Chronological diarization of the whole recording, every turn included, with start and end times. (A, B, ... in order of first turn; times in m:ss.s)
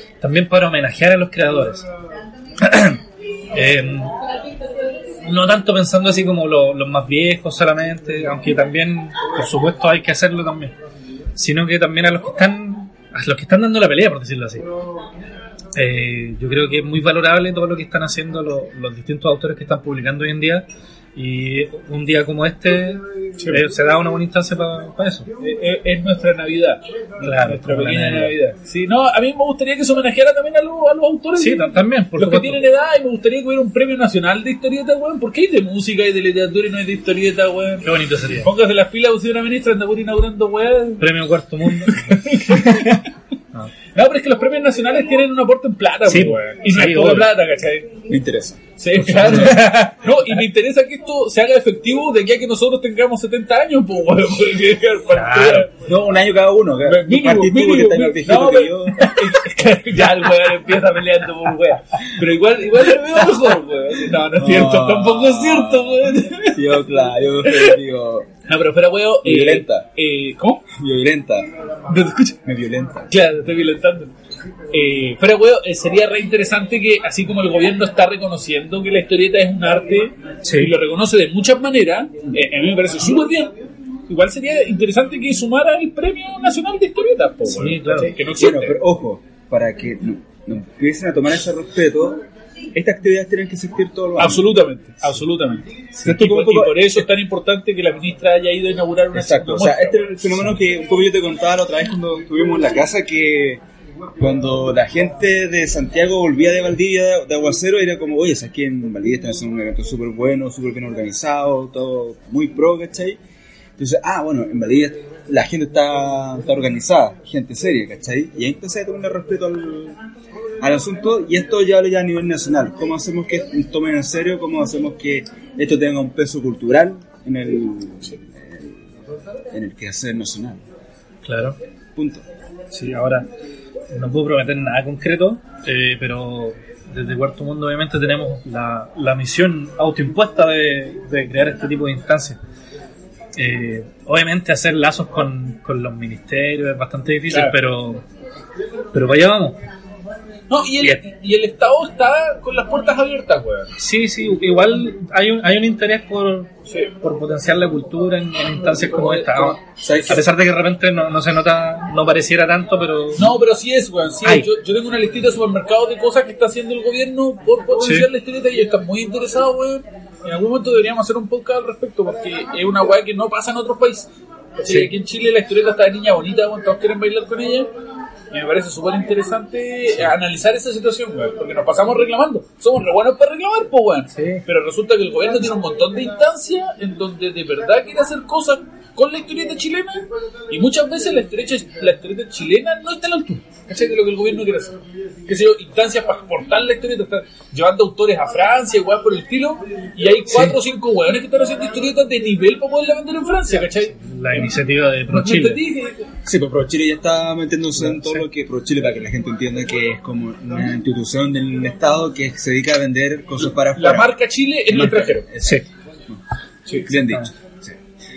0:00.2-0:01.9 A
0:02.6-0:03.0 A
0:03.5-0:04.2 A
0:05.2-0:10.8 A
0:11.4-0:14.6 A
0:15.8-0:25.3 A
0:23.4-0:23.6 B
0:25.4-0:41.1 B
0:27.2-0:28.3 A
0:31.4-0:32.6 A
0:37.8-0:38.5 A
0:41.0-0:43.0 A
0:41.8-0:43.0 B
0:44.0-0:47.9 B
0:46.1-0:47.3 A
0:48.1-0:49.5 C
0:48.8-0:55.7 B
0:49.1-0:50.2 A
0:55.1-0:55.7 A
0:55.8-0:59.4 C
0:56.8-1:06.8 B
1:04.3-1:08.3 C
1:07.4-1:07.8 B
1:08.5-1:10.7 B
1:09.2-1:09.9 C
1:10.7-1:11.5 C
1:11.9-1:12.4 B
1:12.4-1:13.1 C
1:13.1-1:14.1 B
1:14.7-1:23.6 B
1:20.4-1:20.7 A
1:24.1-1:28.8 B
1:27.5-1:28.1 A
1:28.4-1:34.5 C
1:34.2-1:40.4 B
1:36.0-1:37.0 C
1:39.1-1:43.6 C
1:44.2-1:53.2 C
1:53.8-2:00.0 C
2:00.6-2:08.8 C
2:09.5-2:10.6 C
2:11.2-2:11.6 A
2:12.0-2:12.2 C
2:12.7-2:13.3 A
2:13.9-2:22.4 A
2:23.4-2:28.0 A
2:27.3-2:27.6 B
2:28.9-2:29.6 A
2:30.5-2:33.7 B
2:33.8-2:43.3 A
2:38.9-2:39.6 B
2:39.6-2:40.2 C
2:43.2-2:57.7 B
2:47.8-2:48.1 A
2:58.3-3:24.5 B
3:04.1-3:04.4 A
3:20.3-3:20.6 A
3:24.0-3:25.6 A
3:25.1-3:26.1 B
3:26.2-3:34.1 C
3:33.7-3:35.3 B
3:34.7-3:36.2 C
3:35.4-3:35.7 A
3:36.7-3:36.9 B
3:36.8-3:37.7 C
3:37.0-3:37.3 A